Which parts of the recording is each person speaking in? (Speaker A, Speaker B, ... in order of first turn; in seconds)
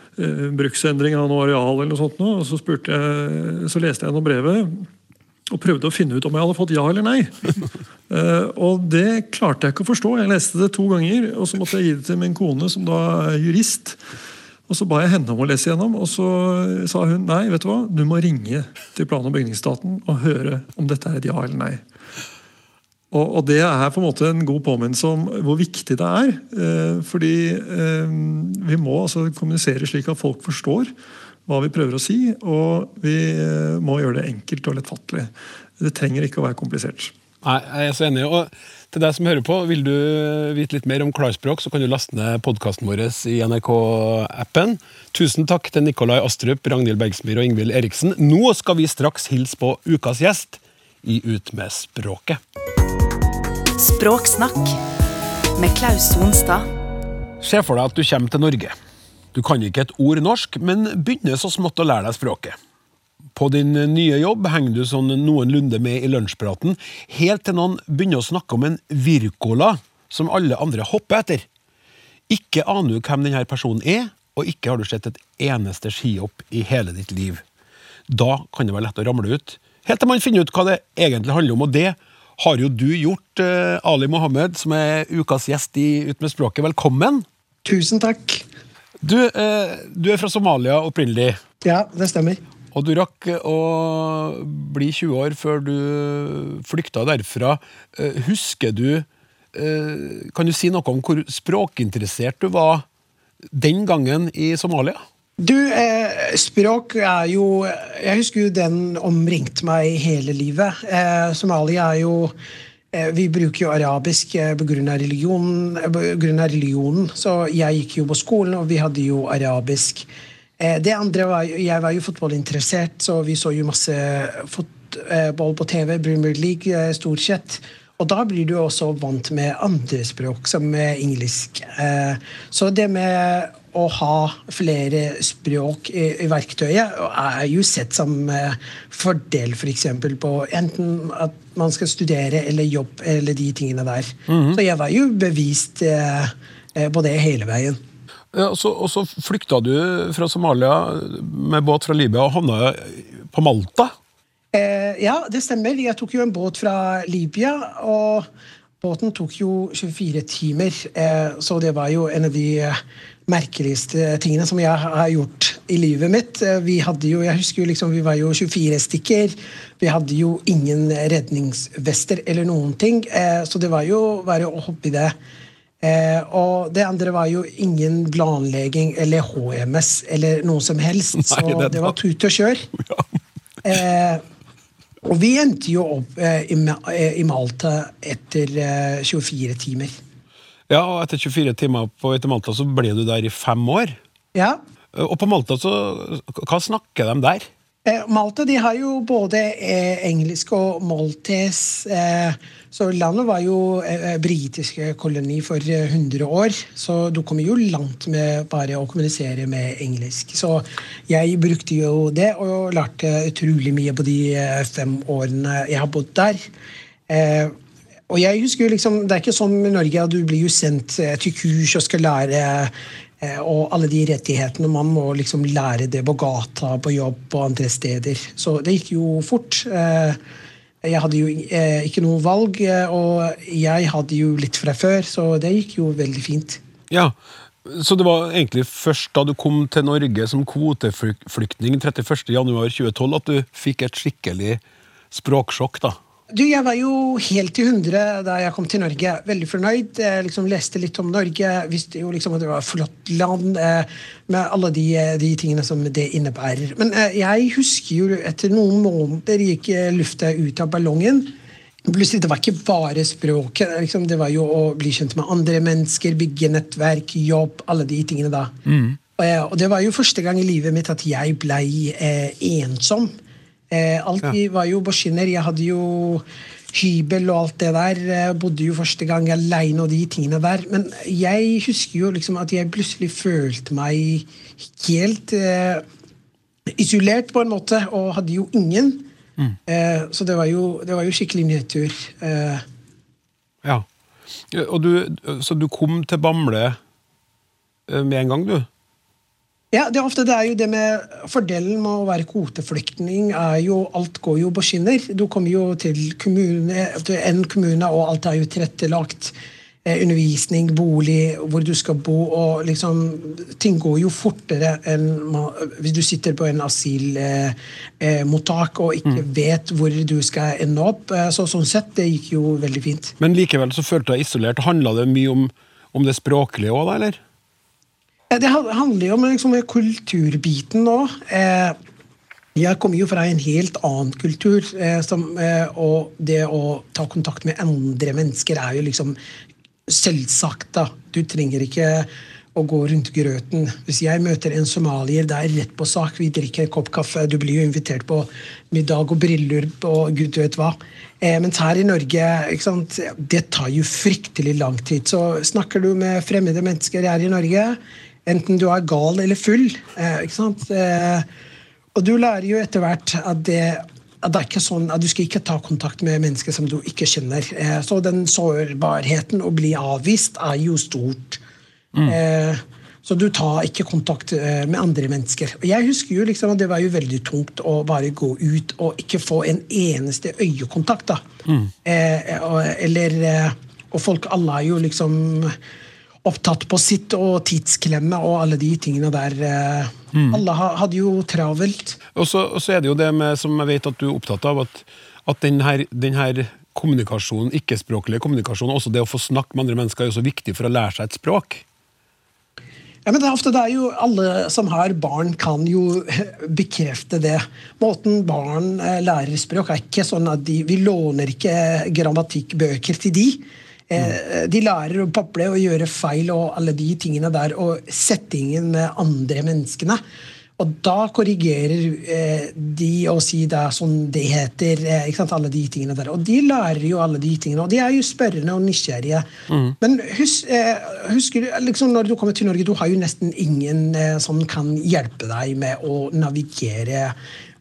Speaker A: 0.1-4.9, 5.5-7.5, 8.1-14.0, 14.7-21.8, 23.1-30.9, 31.5-37.1
Speaker B: 37.4-52.4, 57.4-58.7, 59.3-62.5, 63.3-71.5, 72.3-77.4, 78.1-87.2, 89.0-91.4, 92.7-102.8, 103.5-105.0, 144.3-144.6, 148.3-153.9, 181.3-181.9, 190.7-194.0, 194.9-197.5, 236.9-244.6, 245.1-246.0, 268.6-269.0, 294.5-296.8, 297.9-298.7, 323.2-327.2, 381.5-381.7, 390.1-390.4, 392.1-401.6, 429.5-429.7
Speaker C: 53.8-54.8, 55.5-56.7
Speaker D: 87.6-88.4, 91.6-92.4, 105.4-112.3, 112.9-120.1, 120.6-147.8, 154.5-158.3, 158.8-175.1, 175.8-182.7, 183.6-184.2, 185.1-189.9, 194.3-194.6, 197.8-216.4, 217.1-217.5, 218.1-230.2, 230.8-236.6, 246.3-261.3, 261.9-268.5, 269.2-273.1, 273.7-284.2, 284.8-285.8, 286.8-289.1, 289.7-292.6, 299.7-309.3, 309.9-323.1, 328.3-331.8, 332.6-339.2, 339.9-361.3, 361.9-371.4, 372.1-381.2, 381.8-385.6, 386.2-392.0, 403.1-420.0, 420.6-429.3, 429.8-437.1